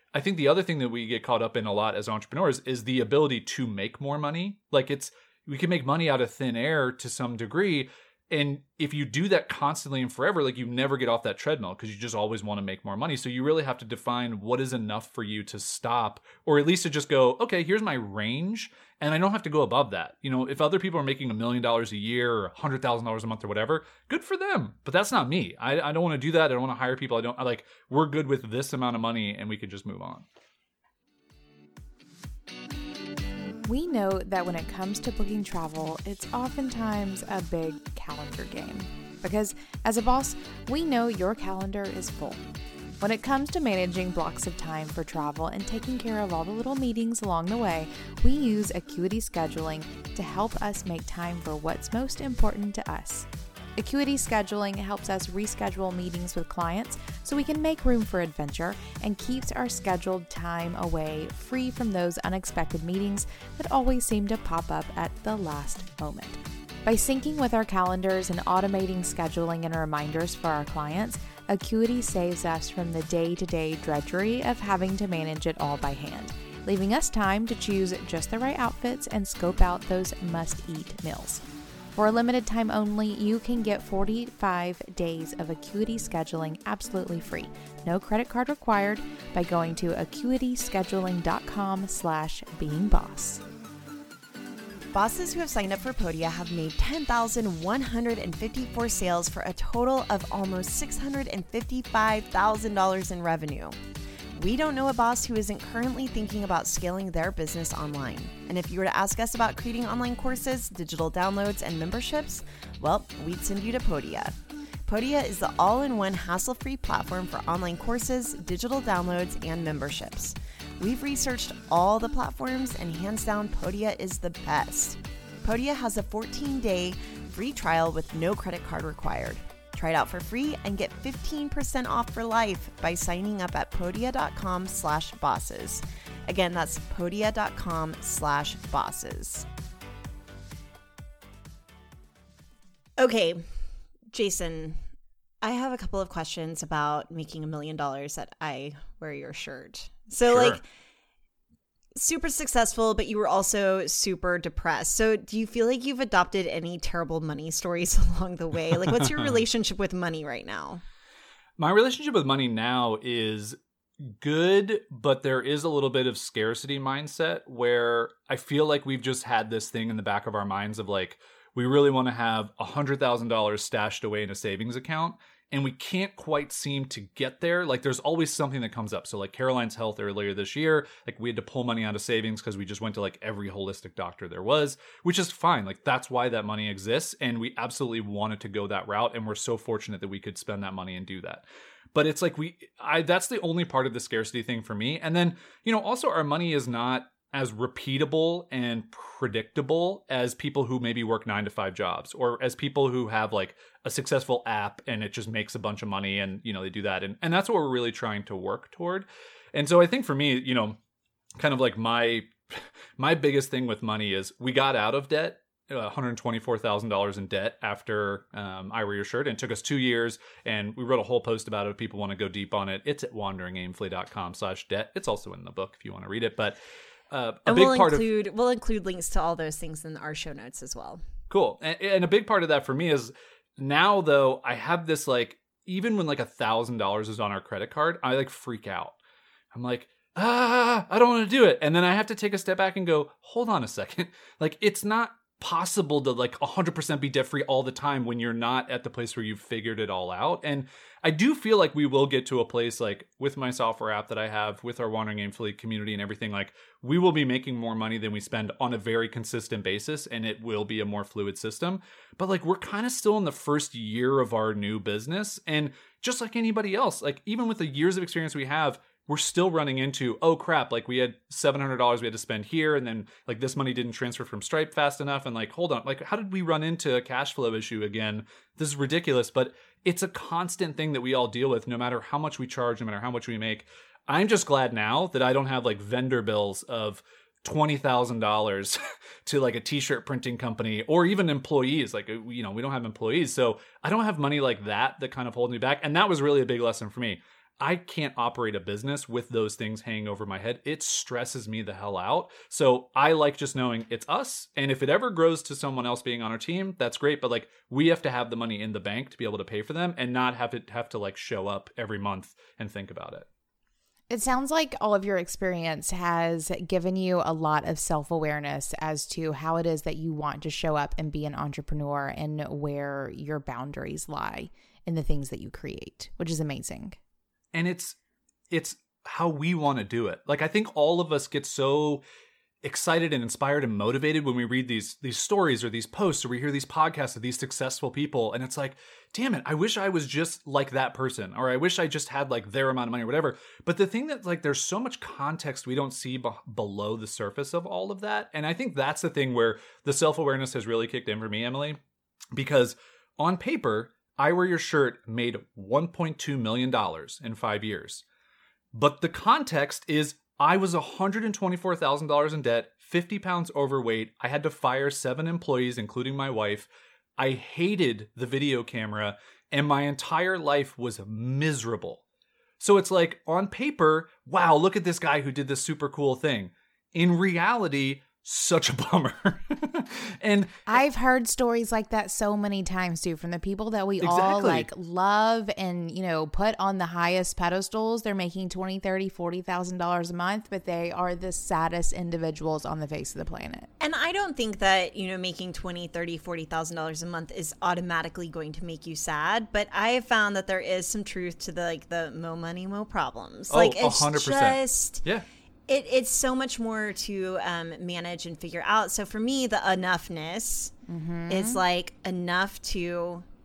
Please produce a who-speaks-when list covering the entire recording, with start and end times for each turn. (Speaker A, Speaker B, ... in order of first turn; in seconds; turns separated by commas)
Speaker A: 0.1-30.3, Speaker B: 33.7-42.4, Speaker B: 43.0-93.4, Speaker C: 94.9-103.8, Speaker C: 104.4-114.3, Speaker C: 114.9-139.5, Speaker C: 143.0-143.5, Speaker C: 144.1-144.8, Speaker C: 145.4-150.7, Speaker A: 150.3-150.6, Speaker C: 152.0-160.8, Speaker A: 161.6-210.8, Speaker A: 211.4-226.6, Speaker A: 227.1-228.1, Speaker C: 227.5-231.0, Speaker A: 231.3-238.9, Speaker A: 239.5-313.3, Speaker B: 314.1-327.0, Speaker A: 327.5-328.0, Speaker A: 328.5-332.0, Speaker A: 332.6-351.8, Speaker A: 352.3-358.0, Speaker A: 358.7-372.0, Speaker A: 372.6-380.8, Speaker B: 380.7-393.7, Speaker A: 384.0-384.7, Speaker C: 393.8-405.0, Speaker A: 403.5-405.3, Speaker C: 405.7-410.7, Speaker B: 410.9-411.6, Speaker C: 411.3-413.2